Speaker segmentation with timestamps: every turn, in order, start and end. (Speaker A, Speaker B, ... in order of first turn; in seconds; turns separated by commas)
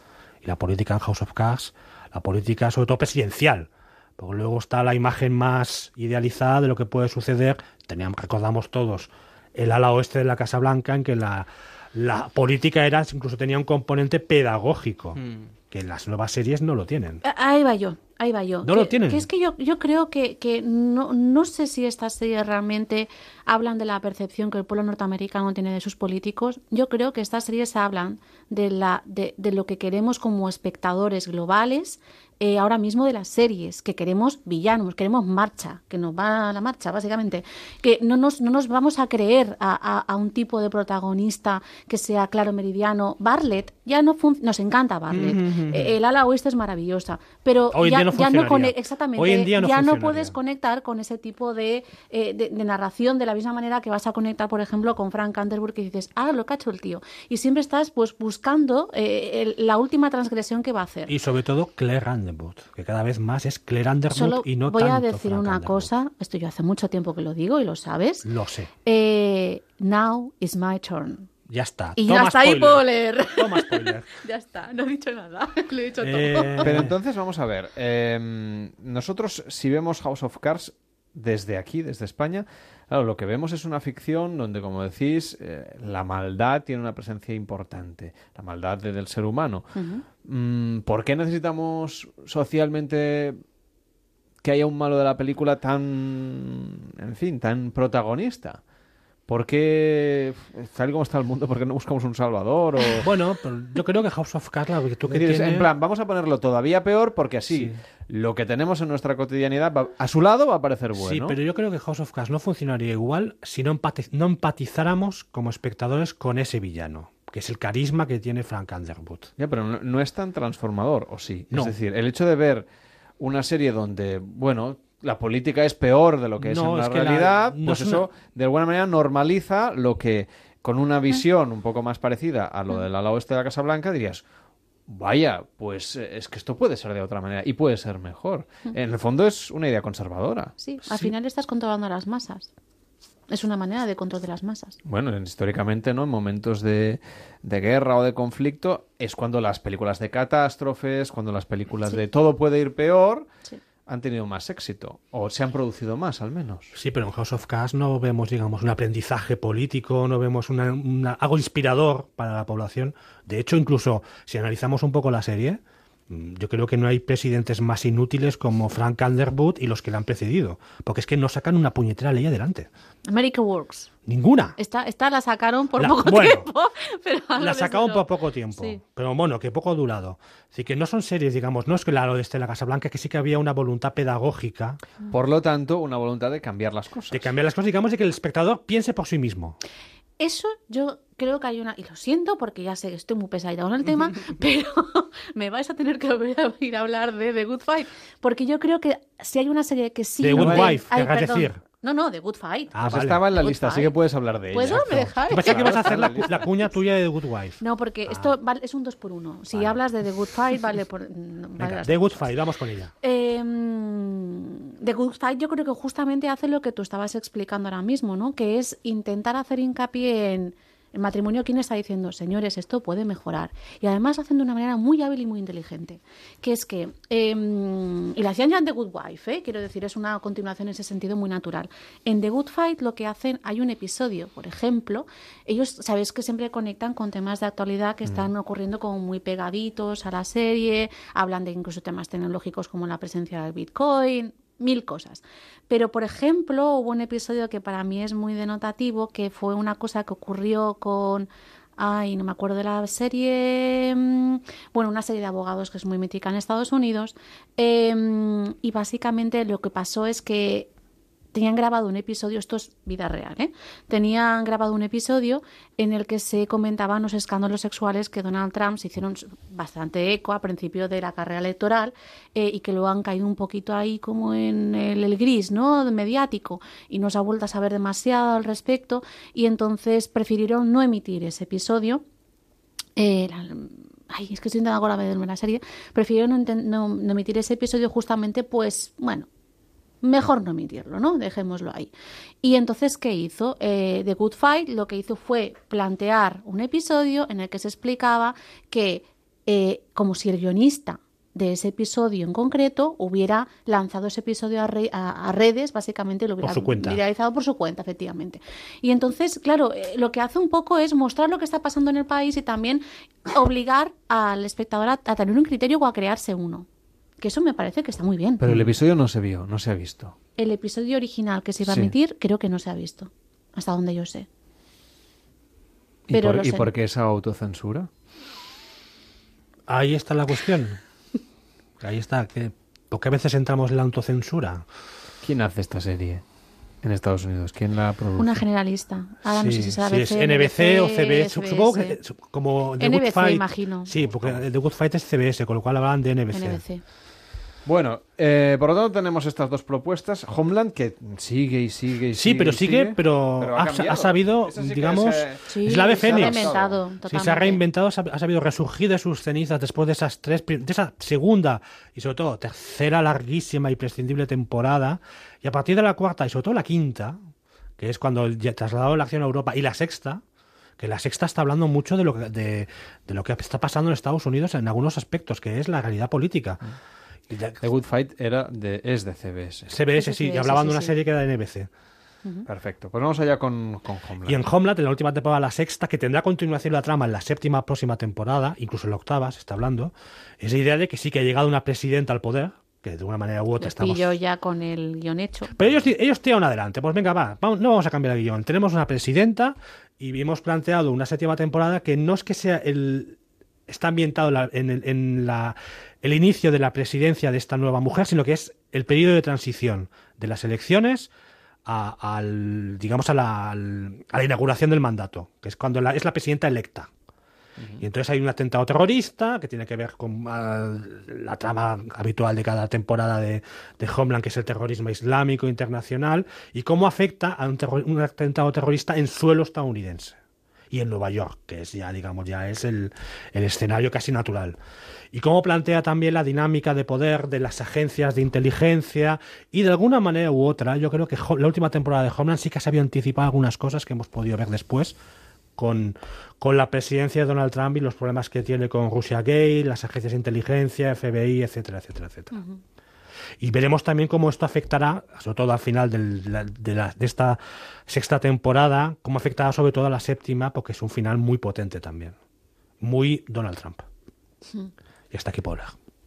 Speaker A: 0.4-17.2, Speaker B: 17.2-61.1, Speaker A: 18.6-19.3, Speaker A: 45.1-45.9, Speaker A: 47.7-50.4, Speaker A: 61.1-65.9, Speaker B: 64.1-68.3, Speaker A: 68.2-68.7, Speaker B: 68.8-71.3, Speaker A: 71.5-74.1, Speaker B: 72.0-76.8, Speaker A: 76.0-76.9, Speaker C: 76.6-89.7, Speaker B: 89.7-90.0, Speaker C: 90.2-93.4, Speaker C: 94.4-98.6, Speaker C: 99.3-103.1, Speaker A: 103.0-105.7, Speaker C: 105.1-111.4, Speaker A: 107.5-107.8, Speaker A: 111.0-119.3, Speaker C: 119.4-122.7, Speaker C: 123.2-134.2, Speaker A: 126.4-128.1, Speaker C: 134.9-140.5, Speaker B: 140.6-142.5, Speaker A: 140.9-141.1, Speaker B: 143.3-144.8, Speaker C: 144.8-153.3, Speaker C: 153.8-156.7, Speaker A: 156.7-172.7, Speaker B: 173.1-173.9, Speaker A: 174.1-174.6, Speaker B: 174.6-178.8, Speaker A: 175.8-176.5, Speaker A: 177.4-184.8, Speaker C: 185.1-187.3, Speaker A: 187.1-189.6, Speaker B: 190.2-202.8, Speaker A: 200.2-201.6, Speaker C: 200.3-200.8, Speaker A: 202.7-203.2, Speaker C: 202.8-206.4, Speaker B: 203.3-203.9, Speaker B: 204.5-206.5, Speaker A: 204.6-208.3, Speaker B: 207.6-212.3, Speaker A: 211.6-212.9, Speaker B: 213.0-260.7, Speaker B: 261.3-282.0, Speaker B: 282.9-289.3, Speaker B: 290.0-291.9, Speaker B: 292.4-316.6, Speaker A: 306.4-307.0, Speaker B: 317.2-318.6, Speaker C: 318.4-320.1, Speaker B: 320.4-324.3, Speaker C: 321.6-321.9, Speaker C: 326.1-327.9, Speaker B: 326.1-326.7, Speaker A: 329.7-330.8, Speaker A: 331.8-334.6, Speaker C: 335.2-336.2, Speaker C: 336.8-338.4, Speaker B: 338.2-342.0, Speaker A: 339.3-346.6, Speaker B: 342.8-343.9, Speaker C: 344.0-344.4, Speaker B: 346.3-346.8, Speaker C: 347.6-356.8, Speaker A: 352.1-356.5, Speaker B: 355.5-357.6, Speaker A: 357.1-367.1, Speaker A: 367.8-370.2, Speaker A: 370.8-376.6, Speaker A: 377.3-377.6, Speaker C: 377.6-379.7, Speaker A: 379.7-381.7, Speaker B: 379.9-380.9, Speaker C: 382.4-384.4, Speaker A: 384.3-394.2, Speaker B: 393.6-395.6, Speaker A: 395.5-403.2, Speaker A: 403.7-411.1, Speaker A: 411.6-416.9, Speaker C: 417.6-417.8, Speaker A: 417.8-430.2, Speaker A: 430.7-434.6, Speaker A: 435.1-445.0, Speaker A: 445.6-452.4, Speaker B: 452.3-452.6, Speaker A: 453.4-462.1, Speaker A: 462.8-463.8, Speaker A: 465.1-465.7